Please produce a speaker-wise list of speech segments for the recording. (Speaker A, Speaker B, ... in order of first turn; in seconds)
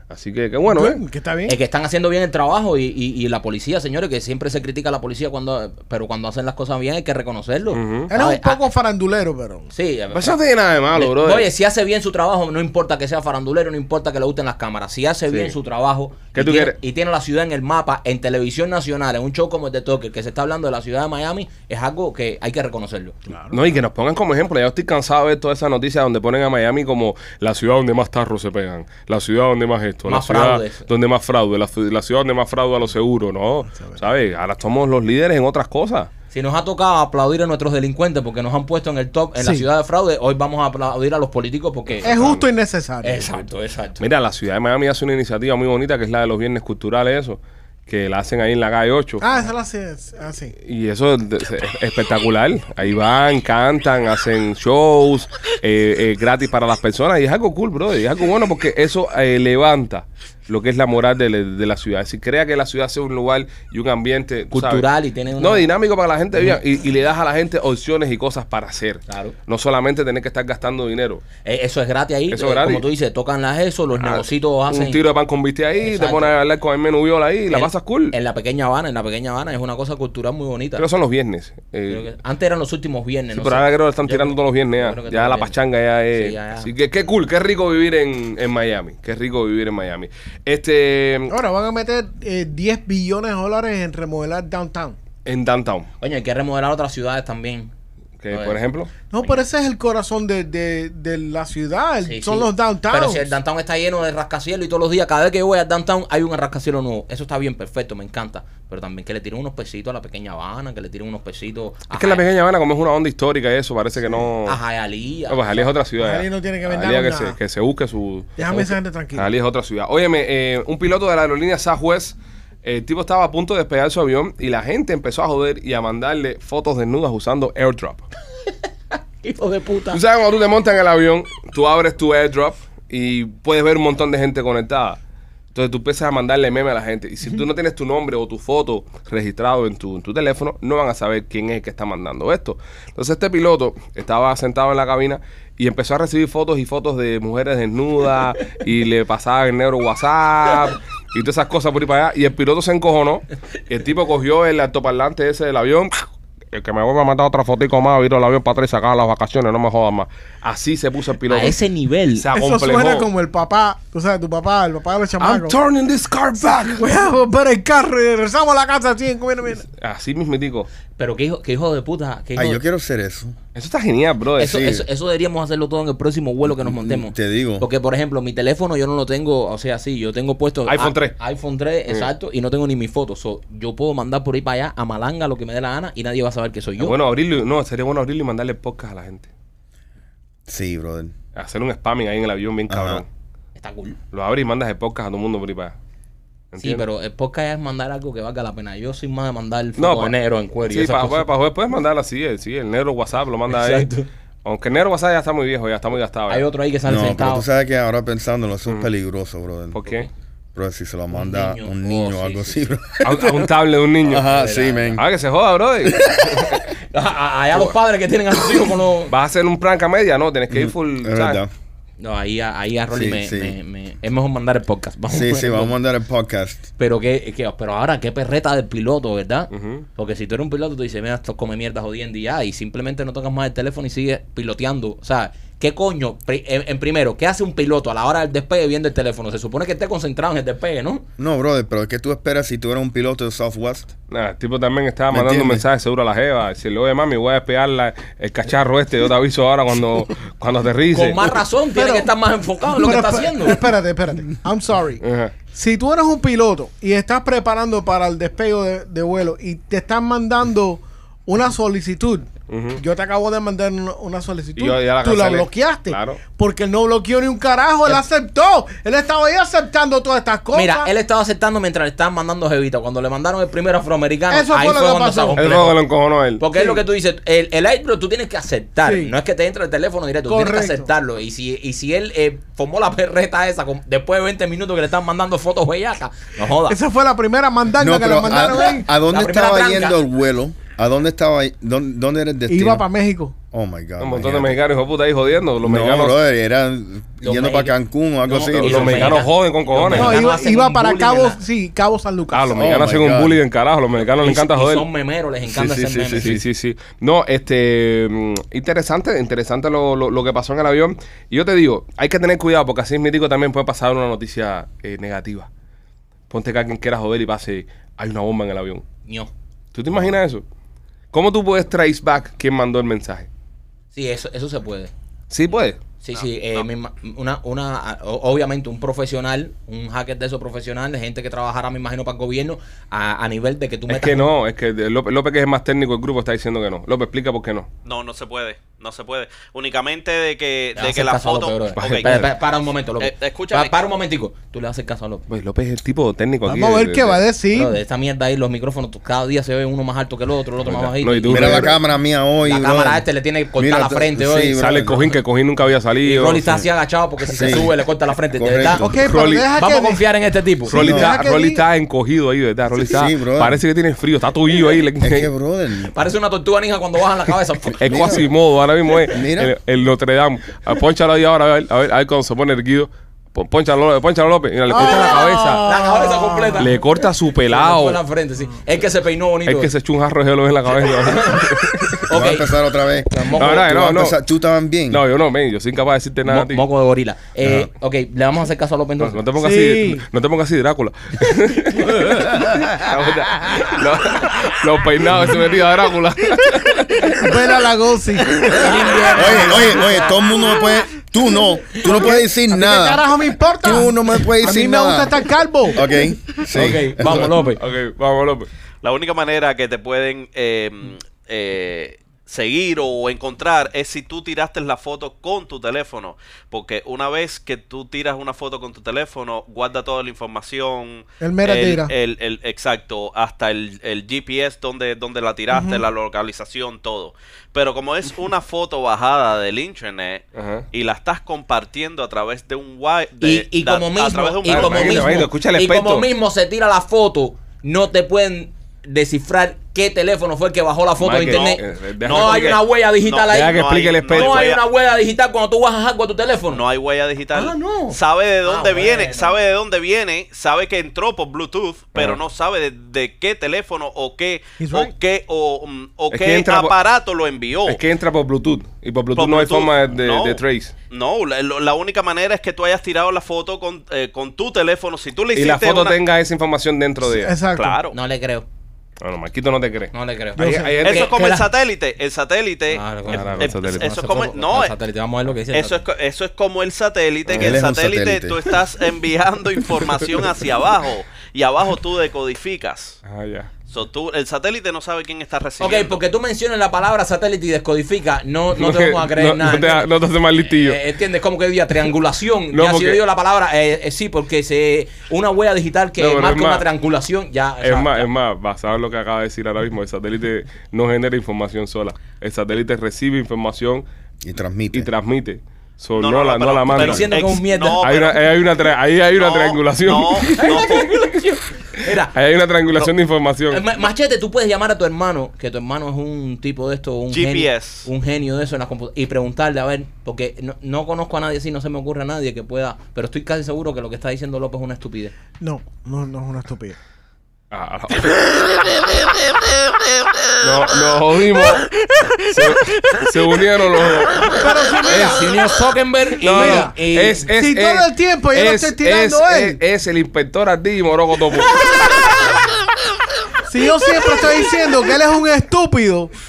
Speaker A: 0.1-1.0, 7.7-8.1, 10.1-11.5, 16.3-16.8, 23.5-36.1, 41.9-42.5, 44.0-49.2, 50.6-64.9, 65.4-71.2, 72.3-72.8, 74.0-78.2, 80.8-82.0, 83.3-91.4, 95.3-95.9, 98.2-98.9, 111.9-114.6, 115.3-128.1, 129.9-135.0, 135.5-161.6, 162.2-163.1, 165.2-166.9, 169.7-170.7, 173.6-174.6, 180.7-181.2, 186.8-189.3, 191.4-193.1, 194.1-195.8, 196.5-196.8, 199.8-200.1, 200.7-203.9, 204.4-206.4, 209.7-210.1, 213.0-214.3, 215.0-216.6, 219.1-221.4, 229.5-229.9, 244.1-251.3, 255.0-255.3, 262.5-262.8, 264.6-266.2, 275.4-276.4, 294.0-296.1, 298.4-300.2, 302.3-304.9, 306.2-315.5, 316.3-318.8, 319.7-320.4, 321.1-323.3, 325.3-325.8, 333.9-337.7, 341.8-342.3, 345.3-347.2, 350.6-351.8, 354.6-356.5, 359.1-359.5, 360.7-365.3, 367.8-375.6, 376.6-378.0, 379.5-382.0, 383.4-384.2, 384.9-386.6, 389.0-397.5, 407.1-408.5, 430.4-430.6, 434.5-436.1, 441.0-442.6, 443.3-444.6, 451.9-452.2, 456.1-456.7, 457.7-460.7, 465.4-467.4, 469.0-471.1, 473.1-473.9, 483.1-483.5, 488.6-490.8, 492.5-493.0, 496.0-496.7, 497.6-503.9, 504.7-507.1, 507.8-511.2, 512.1-513.6, 527.5-528.3, 530.4-534.5, 536.2-541.8
Speaker B: 0.7-1.6, 8.1-9.7, 23.3-23.6, 33.7-34.0, 39.4-39.7, 42.0-43.4, 49.2-50.5, 91.3-95.0, 99.1-103.3, 116.0-117.4, 118.4-119.3, 162.3-165.6, 166.7-169.7, 251.8-252.1, 252.8-255.0, 255.5-270.9, 274.3-275.4, 276.5-276.8, 278.8-279.1, 280.3-280.9, 286.7-288.9, 292.5-293.4, 299.9-302.8, 346.4-347.8, 358.6-360.1, 360.7-361.6, 374.7-376.7, 389.4-390.1, 397.1-400.2, 401.8-405.9, 421.2-421.9, 425.5-425.8, 454.6-454.9, 467.1-467.8, 470.4-470.8, 525.4-526.8, 534.4-535.4, 536.3-536.7, 537.4-539.6, 543.5-546.1
Speaker C: 1.5-8.6, 9.7-10.4, 10.9-23.2, 30.1-30.9, 36.3-42.4, 43.0-44.0, 64.5-65.7, 69.1-69.4, 71.4-75.0, 75.8-76.3, 77.5-80.8, 81.9-85.5, 86.1-86.7, 96.0-97.7, 98.3-98.6, 102.0-112.2, 114.5-115.7, 128.9-130.0, 161.3-162.3, 171.0-172.6, 174.4-187.0, 193.6-194.0, 196.6-201.3, 203.5-204.1, 206.3-207.5, 211.1-212.7, 214.2-215.0, 216.9-219.1, 222.0-225.7, 226.8-241.1, 250.9-253.6, 270.5-275.8, 276.4-286.8, 289.1-290.0, 297.2-297.7, 298.3-301.4, 304.2-306.4, 319.1-319.3, 323.9-324.9, 326.0-334.3, 340.8-345.2, 347.5-351.8, 352.4-354.6, 356.0-358.9, 359.6-360.7, 365.9-368.2, 375.6-376.8, 377.5-379.7, 380.8-384.0, 386.3-389.2, 398.6-400.2, 406.5-407.6, 433.2-446.6, 447.3-449.4, 467.9-468.5, 469.9-471.5, 472.7-475.9, 485.6-498.1, 506.7-507.9, 510.3-512.1, 513.5-525.1, 534.9-537.2
Speaker D: 172.4-173.4, 174.4-174.8, 176.5-177.7, 190.5-191.1, 192.7-193.0, 206.9-209.8, 210.6-215.0, 215.8-216.6, 220.5-221.5, 222.9-223.6, 225.1-226.7, 241.2-243.9, 245.1-245.6, 287.8-292.9, 293.5-294.6, 295.6-299.2, 302.5-303.4, 305.4-306.4, 351.3-355.1, 357.3-357.7, 358.4-359.0, 360.8-361.2, 362.7-363.6, 365.0-365.9, 367.8-368.3, 369.1-369.6, 382.1-385.0, 387.4-387.7, 399.1-403.0, 403.6-407.4, 477.3-478.4, 504.2-504.9
Speaker E: 326.1-326.6, 337.9-342.3, 343.0-343.8, 408.8-435.3, 441.2-444.6, 446.5-457.8, 459.1-466.0, 467.5-468.0, 470.8-474.8, 475.5-483.0, 483.7-486.0, 506.0-508.3, 509.2-511.0, 517.1-517.9